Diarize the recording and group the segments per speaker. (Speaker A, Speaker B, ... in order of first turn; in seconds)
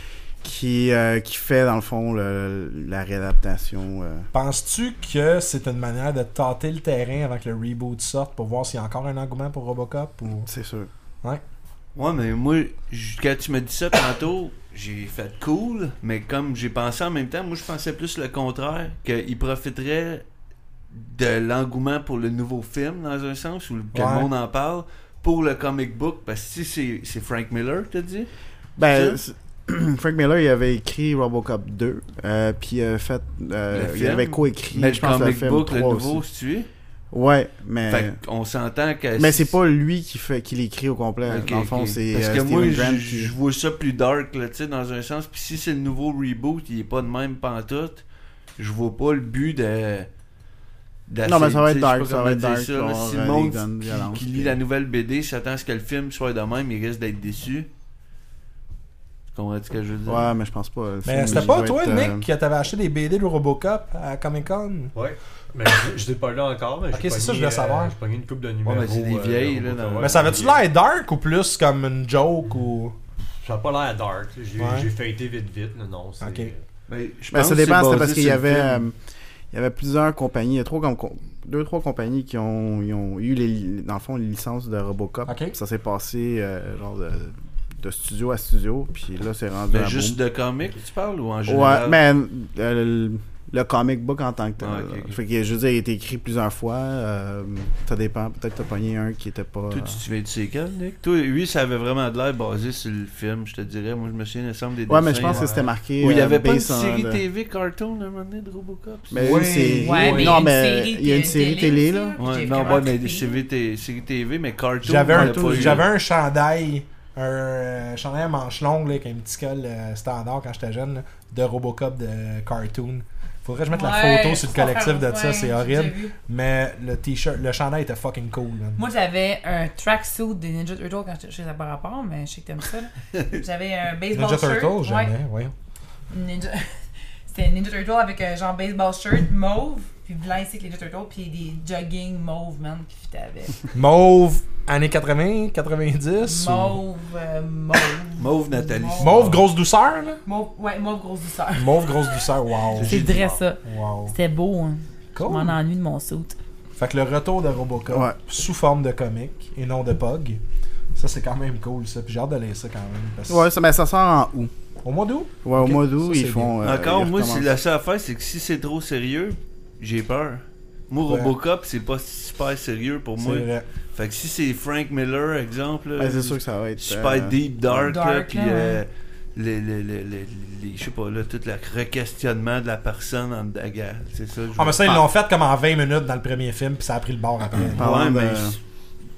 Speaker A: 0.4-4.3, 10.5-10.9, 28.8-36.2, 37.1-38.1, 39.2-43.3, 51.2-54.6, 60.0-62.2, 77.3-79.0, 79.5-90.2, 91.5-100.0, 104.9-107.2, 109.1-112.2, 115.1-115.8, 157.9-158.2, 163.3-164.5, 165.4-167.5, 176.0-177.4, 187.6-188.6
Speaker B: 4.3-10.5, 23.9-24.3, 61.0-64.9, 66.9-67.9, 70.0-73.0, 74.6-74.9, 76.2-76.5, 85.3-85.5, 109.2-110.5, 114.8-128.8, 134.1-135.5, 143.7-146.8, 149.0-150.2, 151.6-153.1, 153.6-154.1, 155.2-155.6, 156.8-160.4, 160.9-163.4, 164.8-166.5, 171.1-171.3, 173.2-173.6, 184.6-187.8
Speaker C: 12.0-20.2, 20.9-28.3, 28.9-29.2, 33.7-36.7, 37.9-39.5, 41.2-48.0, 48.6-50.1, 51.1-57.7, 59.3-60.3, 68.6-70.4, 76.9-78.8, 89.7-92.0, 94.6-95.2, 99.7-105.5, 106.0-109.5, 112.2-115.9, 148.2-149.4, 152.7-153.4, 166.6-185.0, 187.6-188.6
Speaker D: 64.9-70.6, 73.4-76.6, 105.2-105.7
Speaker E: 109.8-113.4, 123.7-126.2, 128.8-135.1, 136.1-143.7, 146.2-149.4, 150.2-156.3, 177.8-178.8